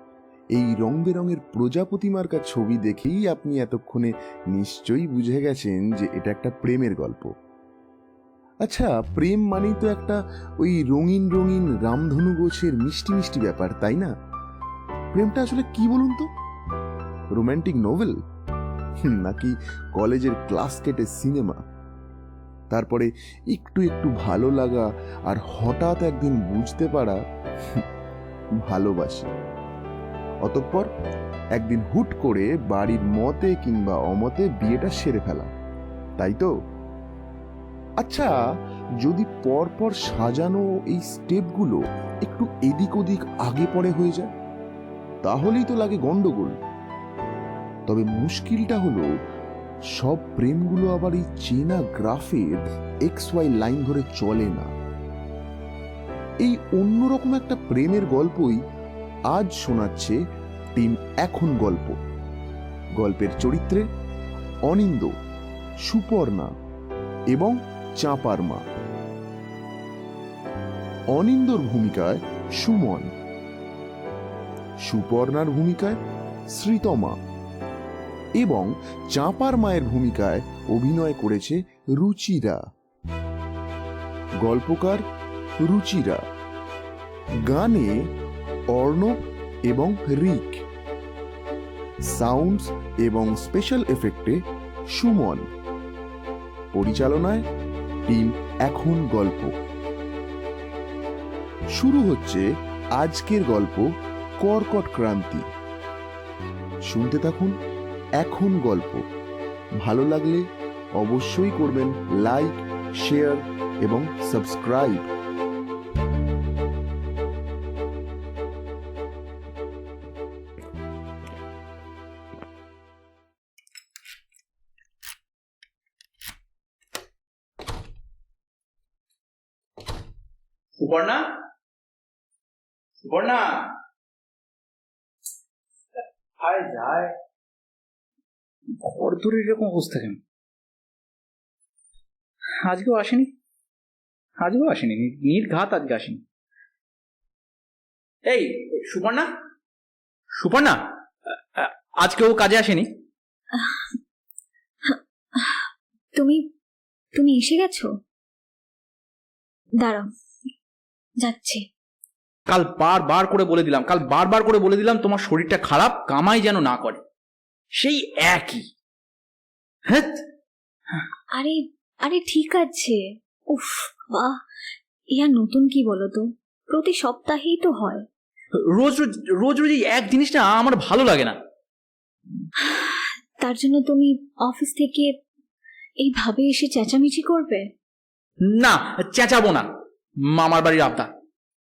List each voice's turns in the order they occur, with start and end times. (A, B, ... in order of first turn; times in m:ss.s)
0:00.6-0:07.3 A
0:08.6-0:14.1 A
0:15.1-0:16.3 A
0:17.4-0:18.2 A
0:19.0-0:21.6 A
0:22.7-0:27.2 A
0:28.6-0:29.3 A
0:30.4-0:30.9 A
0:31.6-0:35.5 A
0:36.2-0:36.5 A
0:38.0-0:38.3 A
0:39.0-0:44.3 A
0:45.2-0:46.6 A
0:47.9-0:49.1 A
0:50.0-0:54.7 A
0:56.4-0:58.6 A
0:59.3-1:00.2 A
1:00.8-1:02.0 A
1:03.0-1:03.9 A
1:04.7-1:05.1 A
1:05.9-1:06.5 A
1:07.3-1:08.6 A
1:11.1-1:13.1 A
1:14.8-1:16.0 A
1:16.5-1:17.2 A
1:18.4-1:22.6 A
1:24.4-1:25.0 A
1:25.6-1:26.2 A
1:27.5-1:28.0 A
1:28.7-1:30.6 A
1:32.1-1:34.4 A
1:34.9-1:35.4 A
1:36.7-1:37.5 A
1:38.1-1:39.5 A
1:41.8-1:42.4 A
1:43.0-1:43.9 A
1:44.4-1:45.5 A
1:46.9-1:47.5 A
1:48.2-1:49.0 A
1:49.8-1:50.4 A
1:51.0-1:55.1 A
2:10.8-2:11.2 B
2:13.0-2:13.7 B
2:16.4-2:17.2 B
2:18.8-2:20.2 B
2:22.6-2:23.3 B
2:24.4-2:26.2 B
2:28.3-2:29.3 B
2:30.4-2:32.9 B
2:33.5-2:33.9 C
2:34.9-2:36.4 C
2:37.2-2:37.9 C
2:39.8-2:40.1 C
2:41.2-2:41.6 C
2:42.5-2:47.0 B
2:47.8-2:48.6 B
2:49.9-2:50.2 B
2:51.4-2:54.4 C
2:55.1-2:58.0 C
2:58.6-3:01.4 B
3:02.6-3:05.1 C
3:06.0-3:07.7 C
3:08.5-3:09.7 B
3:10.3-3:11.1 B